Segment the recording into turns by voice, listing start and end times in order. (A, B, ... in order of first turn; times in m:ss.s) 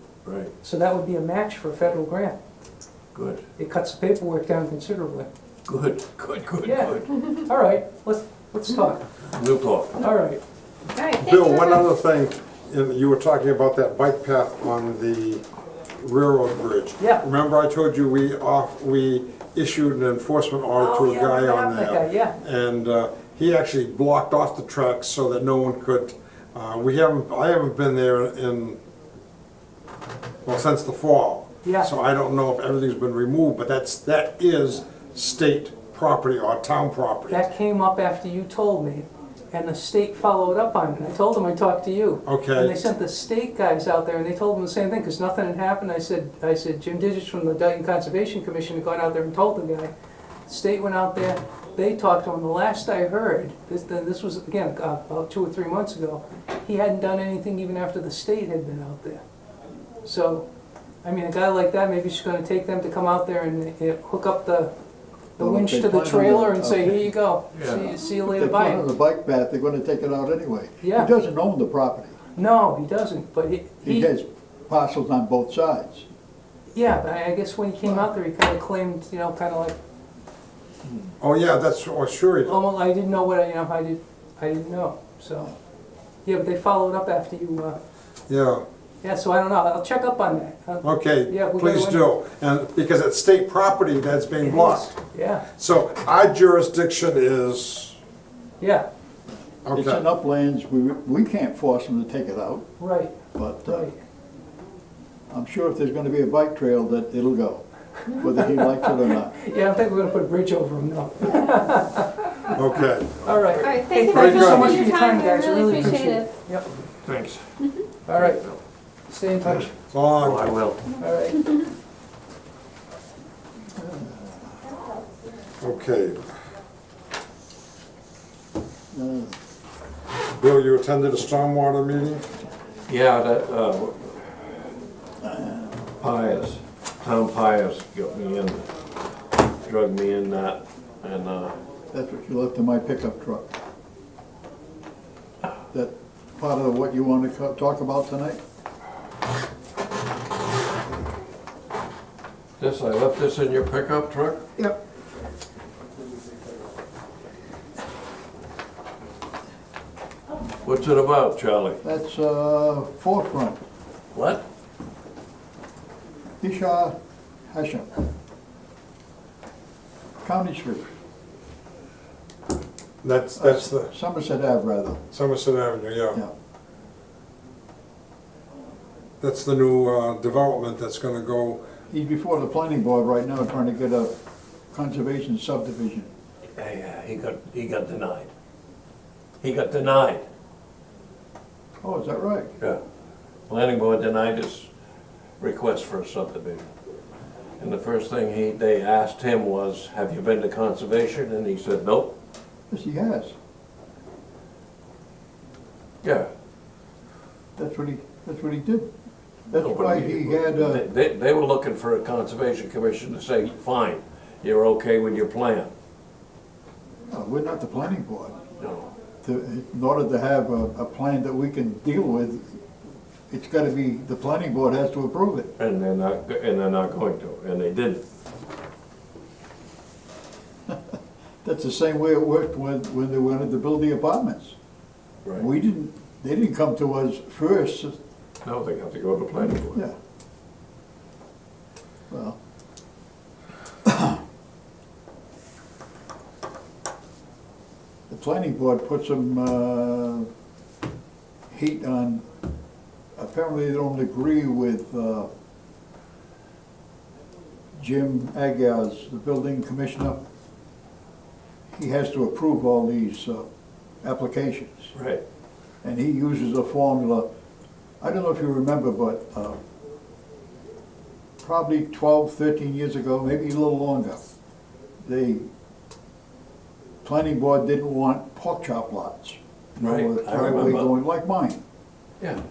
0:00.2-0:00.5 A
0:00.6-0:02.4 B
0:03.1-0:03.4 A
0:03.6-0:05.3 B
0:05.7-0:07.1 A
0:06.6-0:09.1 B
0:09.3-0:10.0 A
0:10.0-0:10.4 B
0:10.9-0:11.9 C
0:11.2-0:15.4 D
0:16.0-0:28.8 D
0:17.0-0:17.3 B
0:20.8-0:22.4 B
0:30.4-0:37.4 D
0:31.6-0:31.9 B
0:37.3-0:49.9 B
0:42.2-0:42.7 D
0:50.4-0:59.2 B
1:00.0-1:00.5 B
1:01.0-1:04.7 B
1:05.4-1:08.8 B
1:05.4-1:07.1 E
1:07.5-1:08.0 A
1:08.2-1:12.2 E
1:10.8-1:11.1 B
1:12.4-1:14.1 B
1:13.8-1:16.1 E
1:16.7-1:19.8 B
1:21.2-1:22.6 D
1:22.4-1:25.5 B
1:26.2-1:27.8 B
1:28.3-1:28.6 D
1:29.0-1:32.0 B
1:30.8-1:35.0 D
1:34.4-1:35.5 B
1:35.5-1:38.0 D
1:38.6-1:38.9 B
1:39.6-1:40.0 D
1:39.7-1:42.7 E
1:42.8-1:44.0 B
1:43.3-1:43.9 E
1:45.3-1:49.4 E
1:48.5-1:52.6 B
1:52.5-1:54.8 D
1:53.2-1:56.7 B
1:53.6-1:56.3 C
1:57.0-1:58.6 A
1:58.0-1:58.4 B
1:59.1-1:59.7 B
1:59.4-2:00.8 A
1:59.9-2:00.5 D
2:01.0-2:01.5 B
2:03.8-2:04.5 E
2:05.6-2:06.2 D
2:08.9-2:09.3 E
2:10.4-2:12.2 D
2:12.9-2:14.4 A
2:15.2-2:15.7 E
2:16.0-2:18.6 A
2:19.6-2:21.5 A
2:21.9-2:23.5 E
2:25.7-2:28.4 E
2:32.6-2:34.4 A
2:40.6-2:41.8 A
2:41.8-2:43.6 E
2:44.1-2:44.4 A
2:46.4-2:46.9 E
2:47.5-2:47.9 E
2:50.2-2:50.9 E
2:53.0-2:53.9 D
2:53.4-2:55.0 E
2:55.1-2:56.2 D
2:59.2-3:01.6 D
3:01.9-3:04.1 E
3:04.7-3:06.1 E
3:06.6-3:08.3 A
3:09.4-3:10.2 A
3:11.8-3:12.5 E
3:13.5-3:14.7 A
3:15.4-3:16.6 A
3:17.6-3:22.1 A
3:22.7-3:23.3 E
3:26.0-3:26.3 A
3:27.6-3:28.9 E
3:29.5-3:30.8 E
3:29.5-3:35.7 A
3:37.1-3:38.4 E
3:38.6-3:38.9 A
3:39.2-3:42.6 E
3:43.3-3:45.5 E
3:45.6-3:48.0 A
3:51.4-3:54.6 E
3:55.4-3:58.0 E
3:58.4-3:59.8 A
4:02.1-4:02.4 E
4:03.8-4:04.2 E
4:08.1-4:10.3 E
4:11.5-4:12.2 E
4:13.2-4:15.3 E
4:17.8-4:20.2 E
4:21.7-4:23.4 E
4:24.0-4:24.9 E
4:24.9-4:25.2 A
4:25.8-4:27.2 E
4:28.0-4:29.6 E
4:31.4-4:34.2 E
4:35.0-4:35.5 E
4:37.0-4:41.6 E
4:39.8-4:40.9 A